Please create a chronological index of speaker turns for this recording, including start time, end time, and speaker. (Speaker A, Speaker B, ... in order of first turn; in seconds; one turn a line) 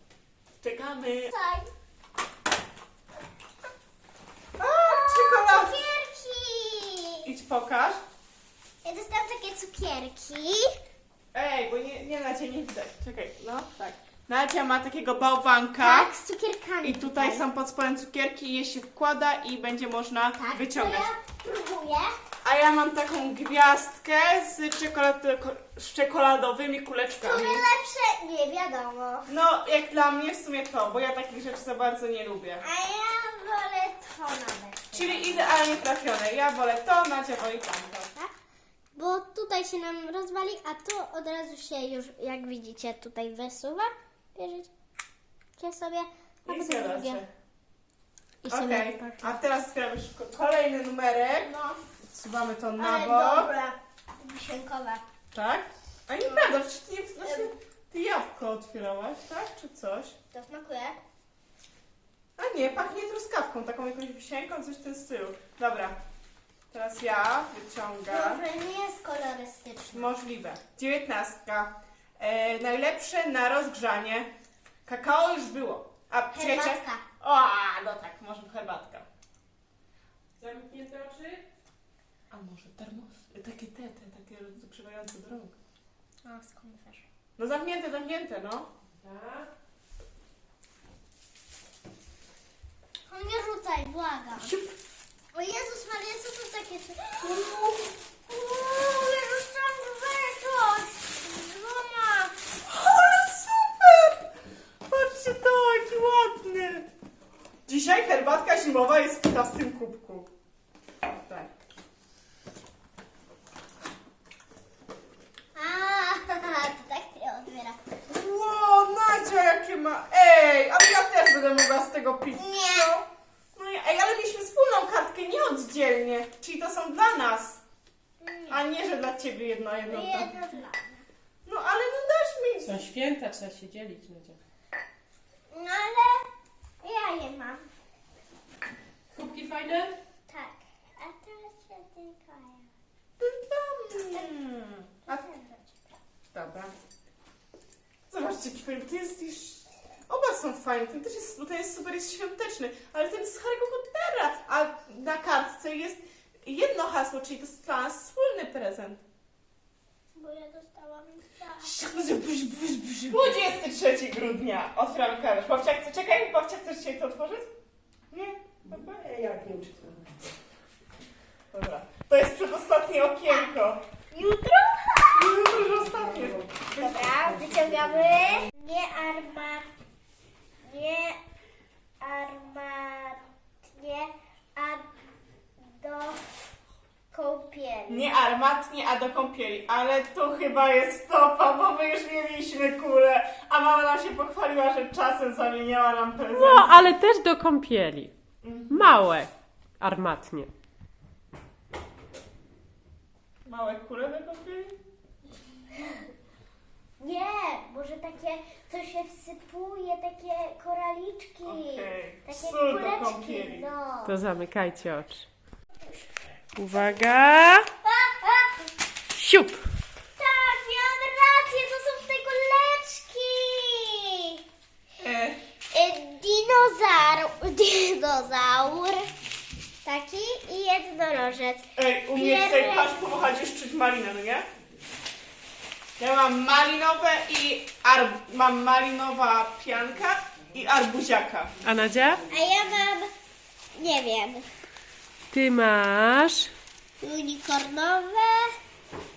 Speaker A: 0.6-1.3
Speaker B: 1.3-1.7
Speaker A: 4.6-5.8
Speaker B: 4.7-7.3
Speaker A: 7.2-8.0
Speaker B: 8.8-10.8
Speaker A: 11.3-16.1
Speaker B: 15.8-17.4
Speaker A: 16.8-21.1
Speaker B: 20.4-22.1
Speaker A: 22.4-27.7
Speaker B: 27.2-29.3
Speaker A: 29.3-32.6
Speaker B: 32.6-35.5
Speaker A: 34.9-38.1
Speaker B: 38.9-44.7
Speaker B: 45.6-47.2
Speaker A: 46.5-47.3
Speaker B: 48.4-49.3
Speaker A: 48.5-51.5
Speaker B: 51.4-51.8
Speaker A: 52.1-53.5
Speaker B: 52.8-55.0
Speaker A: 55.3-60.2
Speaker B: 56.2-56.5
Speaker B: 57.2-57.5
Speaker B: 60.3-61.0
Speaker A: 62.4-66.0
Speaker A: 66.7-68.4
Speaker B: 68.1-70.2
Speaker A: 69.9-74.3
Speaker A: 74.8-79.0
Speaker B: 76.3-77.0
Speaker C: 80.4-81.4
Speaker A: 82.3-85.5
Speaker B: 86.2-87.0
Speaker A: 87.4-88.7
Speaker C: 88.9-89.5
Speaker B: 93.1-94.5
Speaker A: 94.4-94.7
Speaker B: 95.3-97.6
Speaker A: 97.2-97.9
Speaker B: 98.3-102.3
Speaker A: 102.7-104.3
Speaker A: 104.9-106.9
Speaker A: 107.7-110.3
Speaker A: 111.2-111.5
Speaker B: 115.5-117.8
Speaker A: 118.1-127.6
Speaker B: 122.4-122.9
Speaker B: 128.2-128.6
Speaker A: 128.5-130.3
Speaker B: 129.9-131.1
Speaker A: 131.4-132.9
Speaker C: 132.7-134.4
Speaker B: 135.5-136.3
Speaker B: 136.8-137.6
Speaker C: 139.1-139.9
Speaker B: 140.3-142.7
Speaker A: 143.2-145.2
Speaker B: 145.1-145.8
Speaker A: 146.3-146.7
Speaker A: 148.1-159.0
Speaker B: 160.1-161.7
Speaker A: 161.6-167.5
Speaker A: 168.1-168.9
Speaker C: 168.7-170.2
Speaker A: 171.5-173.8
Speaker B: 173.3-173.6
Speaker B: 174.1-175.3
Speaker A: 175.1-177.0
Speaker C: 176.2-176.5
Speaker B: 176.7-179.7
Speaker C: 177.3-178.2
Speaker B: 180.6-181.2
Speaker B: 182.0-184.9
Speaker B: 185.6-186.2
Speaker B: 187.1-188.1
Speaker A: 187.9-196.8
Speaker C: 196.3-198.1
Speaker A: 198.4-198.8
Speaker C: 198.7-200.5
Speaker A: 203.4-204.8
Speaker B: 205.7-206.1
Speaker B: 207.0-214.2
Speaker A: 211.4-213.7
Speaker C: 214.0-215.3
Speaker A: 216.6-217.7
Speaker B: 217.8-218.7
Speaker C: 219.2-219.6
Speaker B: 220.2-224.4
Speaker A: 225.0-225.4
Speaker B: 225.7-229.1
Speaker B: 229.8-233.0
Speaker A: 231.8-234.4
Speaker A: 236.0-241.5
Speaker C: 241.6-242.2
Speaker B: 242.3-243.1
Speaker B: 243.7-244.5
Speaker C: 245.3-246.5
Speaker B: 247.0-248.6